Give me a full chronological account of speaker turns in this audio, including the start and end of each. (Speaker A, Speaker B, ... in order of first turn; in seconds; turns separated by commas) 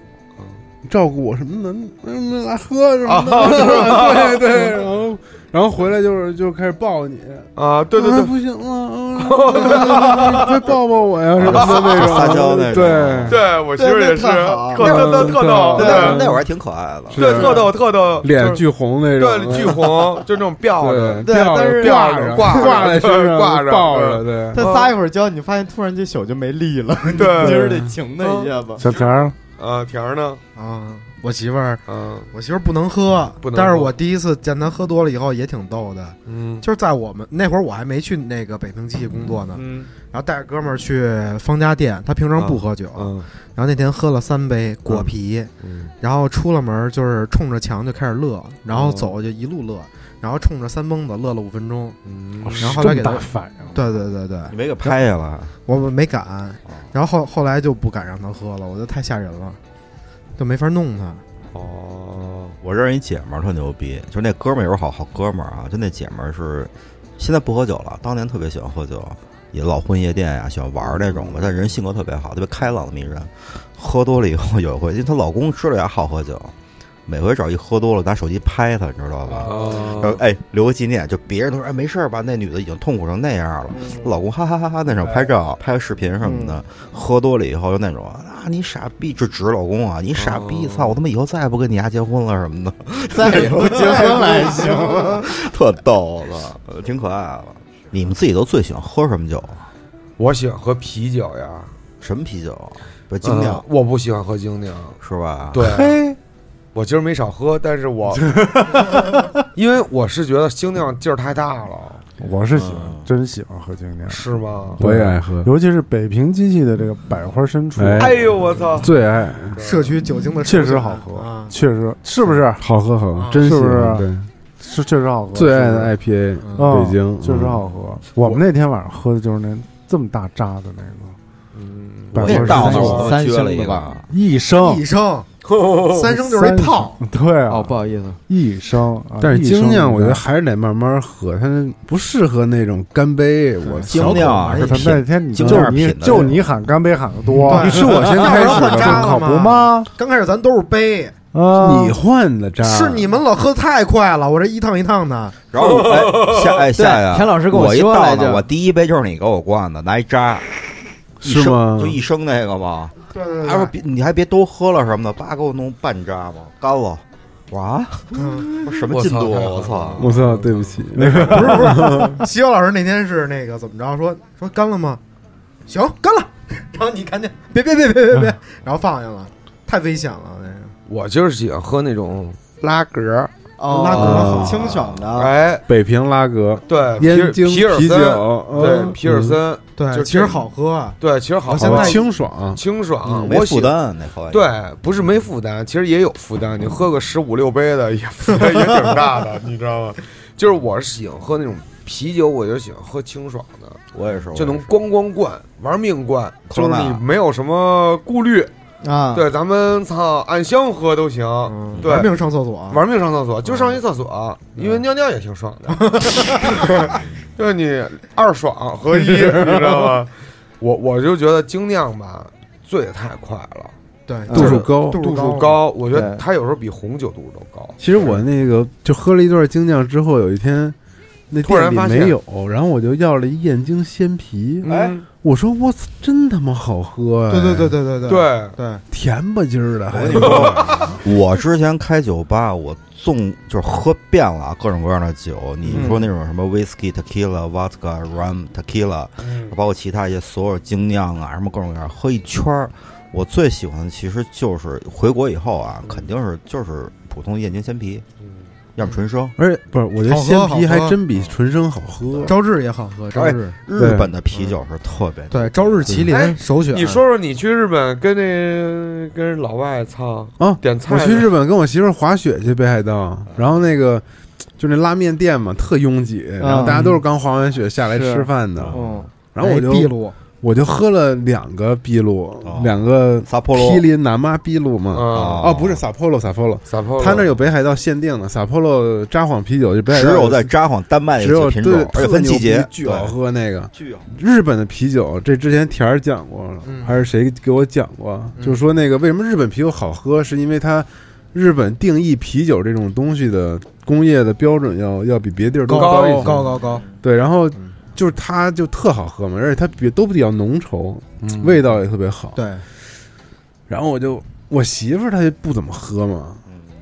Speaker A: 0.8-13.4, Speaker B: 3.0-4.8, Speaker B: 7.6-8.4, Speaker B: 9.2-10.6, Speaker C: 11.4-13.4, Speaker B: 11.4-12.4, Speaker B: 13.3-16.2, Speaker D: 13.8-15.1, Speaker A: 14.8-16.4, Speaker C: 15.7-17.5, Speaker D: 15.8-16.2, Speaker A: 17.1-20.2, Speaker B: 17.1-25.0, Speaker A: 20.8-24.7, Speaker D: 21.2-23.0, Speaker D: 24.5-28.8, Speaker B: 27.1-27.6, Speaker A: 27.4-28.0, Speaker B: 28.2-30.4, Speaker E: 28.8-29.4, Speaker F: 30.6-52.0, Speaker B: 31.9-32.3, Speaker B: 33.4-34.0, Speaker B: 36.3-36.6, Speaker B: 39.5-39.9, Speaker B: 42.4-43.3, Speaker B: 45.6-45.9, Speaker B: 48.7-49.1, Speaker B: 52.0-53.0, Speaker E: 52.6-53.8, Speaker F: 52.6-54.5, Speaker C: 54.5-55.5, Speaker F: 55.6-59.6, Speaker F: 60.4-61.2, Speaker B: 61.5-62.6, Speaker C: 62.6-76.5, Speaker B: 70.8-71.5, Speaker C: 77.1-99.7, Speaker B: 79.4-80.2, Speaker D: 86.2-86.6, Speaker B: 90.2-91.0, Speaker D: 93.1-95.3, Speaker F: 93.9-94.9, Speaker B: 100.2-101.8, Speaker C: 102.0-103.7, Speaker B: 103.2-105.0, Speaker C: 105.0-105.7, Speaker B: 105.5-106.0, Speaker E: 105.7-106.2, Speaker B: 106.7-108.8, Speaker E: 108.3-109.2, Speaker B: 109.5-112.0, Speaker E: 112.2-118.2, Speaker C: 112.5-113.1, Speaker B: 114.1-114.8, Speaker A: 114.8-115.5, Speaker A: 117.8-118.2, Speaker B: 118.0-119.0, Speaker A: 118.8-119.6, Speaker B: 119.5-119.9, Speaker F: 119.6-121.5, Speaker E: 120.4-122.6, Speaker A: 122.6-124.3, Speaker F: 123.2-123.5, Speaker E: 123.4-124.1, Speaker E: 124.6-125.9, Speaker A: 125.3-127.6, Speaker F: 126.4-126.7, Speaker E: 126.6-131.2, Speaker B: 131.5-132.9, Speaker E: 132.1-133.1, Speaker C: 132.2-134.1, Speaker D: 132.2-133.9, Speaker E: 134.1-134.8, Speaker F: 134.6-135.3, Speaker B: 135.4-136.1, Speaker F: 135.9-137.0, Speaker E: 136.1-140.2, Speaker D: 137.5-138.2, Speaker A: 139.2-144.5, Speaker F: 143.6-144.9, Speaker C: 143.9-146.5, Speaker E: 144.5-149.9, Speaker A: 145.4-146.2, Speaker A: 147.4-149.1, Speaker F: 147.4-151.2, Speaker E: 151.3-152.0, Speaker A: 151.6-153.1, Speaker F: 152.6-155.3, Speaker C: 155.5-160.5, Speaker B: 155.6-156.6, Speaker D: 156.8-158.4, Speaker A: 161.2-162.0, Speaker C: 161.2-170.1, Speaker F: 163.1-163.7, Speaker F: 168.2-168.5, Speaker B: 168.7-171.5, Speaker A: 170.0-172.2, Speaker F: 171.2-175.0, Speaker F: 175.7-180.7, Speaker B: 180.9-184.4, Speaker D: 183.6-185.3, Speaker F: 183.7-184.7, Speaker A: 183.8-184.7, Speaker B: 185.1-185.7, Speaker A: 185.7-189.4, Speaker B: 186.7-190.4, Speaker F: 189.8-192.1, Speaker B: 191.0-193.7, Speaker A: 191.5-192.6, Speaker C: 193.1-194.5, Speaker B: 194.3-203.8, Speaker C: 203.9-204.7, Speaker B: 204.3-208.5, Speaker C: 206.5-207.0, Speaker D: 208.8-209.3, Speaker B: 209.1-212.1, Speaker F: 211.5-212.8, Speaker C: 211.7-212.1, Speaker B: 212.7-223.8, Speaker F: 215.8-216.6, Speaker A: 218.9-219.9, Speaker F: 224.1-225.6, Speaker B: 224.3-228.2, Speaker A: 224.3-225.0, Speaker D: 225.9-226.2, Speaker A: 227.8-230.8, Speaker A: 231.3-237.8, Speaker B: 231.4-232.2, Speaker B: 234.6-235.1, Speaker C: 234.7-235.0, Speaker F: 237.3-238.8, Speaker B: 238.1-238.6, Speaker A: 238.9-241.0, Speaker C: 239.9-258.1, Speaker B: 240.1-240.9, Speaker F: 245.7-246.0, Speaker B: 249.2-249.6, Speaker C: 258.8-259.4, Speaker A: 259.4-262.4, Speaker F: 260.0-261.0, Speaker F: 262.3-263.6, Speaker C: 263.1-266.0, Speaker A: 263.7-264.1, Speaker F: 265.3-267.0, Speaker B: 266.1-271.3, Speaker A: 270.4-274.0, Speaker A: 274.6-290.5, Speaker D: 276.4-277.0, Speaker D: 277.8-279.1, Speaker F: 279.4-280.2, Speaker C: 282.4-283.9, Speaker B: 284.9-285.5, Speaker C: 285.1-285.8, Speaker B: 286.7-287.4, Speaker C: 289.9-293.2, Speaker A: 291.2-306.5, Speaker C: 293.7-294.1, Speaker F: 296.6-296.9, Speaker F: 298.4-298.6, Speaker F: 305.7-306.9, Speaker B: 305.7-306.5, Speaker A: 307.0-312.4, Speaker B: 311.3-311.6, Speaker F: 312.4-312.6, Speaker A: 313.7-316.4